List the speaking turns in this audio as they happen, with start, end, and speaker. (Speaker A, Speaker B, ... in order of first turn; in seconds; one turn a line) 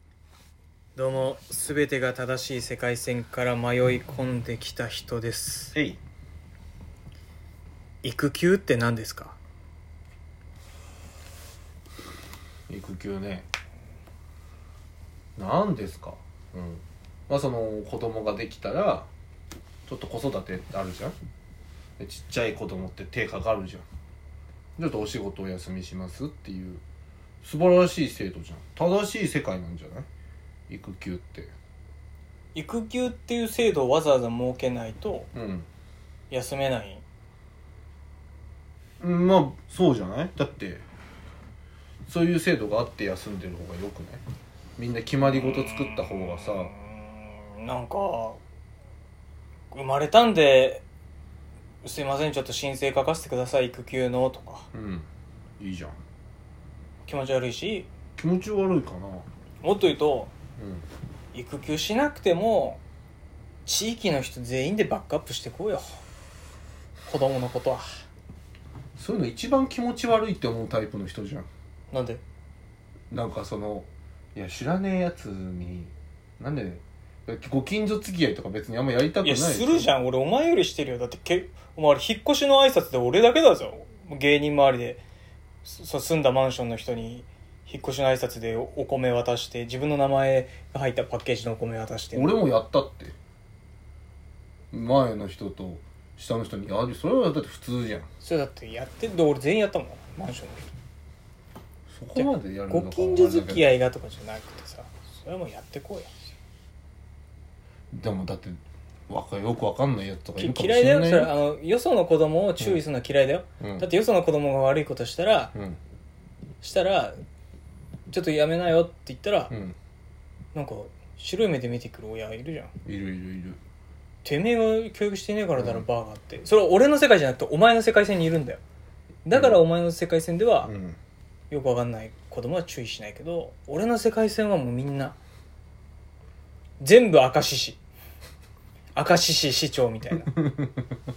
Speaker A: 1.0-5.8
Speaker B: 5.7-6.0
Speaker A: 8.0-9.4
Speaker B: 12.7-13.5
Speaker B: 15.4-19.1
Speaker B: 19.9-21.2
Speaker B: 22.0-23.9
Speaker B: 24.8-26.8
Speaker B: 27.4-30.1
Speaker B: 30.7-31.5
Speaker A: 32.5-35.3
Speaker B: 35.3-35.7
Speaker A: 36.3-37.0
Speaker B: 39.0-40.8
Speaker B: 42.1-44.2
Speaker B: 44.8-46.7
Speaker A: 45.2-48.4
Speaker A: 49.7-50.8
Speaker A: 51.8-54.7
Speaker B: 54.7-55.1
Speaker B: 55.6-56.0
Speaker A: 57.1-57.9
Speaker B: 58.2-59.3
Speaker A: 59.6-60.3
Speaker B: 60.6-60.9
Speaker A: 61.3-62.8
Speaker A: 63.6-66.0
Speaker A: 67.1-68.0
Speaker B: 69.0-71.5
Speaker A: 71.9-72.2
Speaker B: 73.1-79.9
Speaker A: 79.2-85.0
Speaker A: 85.6-92.4
Speaker B: 92.1-93.2
Speaker B: 94.7-98.1
Speaker A: 98.2-100.7
Speaker B: 101.9-103.7
Speaker A: 102.2-106.1
Speaker B: 107.9-111.3
Speaker A: 110.4-115.5
Speaker B: 113.6-113.9
Speaker A: 116.6-117.2
Speaker A: 118.1-119.5
Speaker B: 119.5-119.8
Speaker A: 120.5-122.7
Speaker B: 122.8-123.6
Speaker A: 124.2-128.6
Speaker B: 125.6-125.8
Speaker A: 129.2-130.7
Speaker B: 129.3-129.6
Speaker B: 130.6-131.0
Speaker A: 131.5-135.2
Speaker A: 136.8-137.8
Speaker A: 138.9-140.3
Speaker B: 140.2-141.0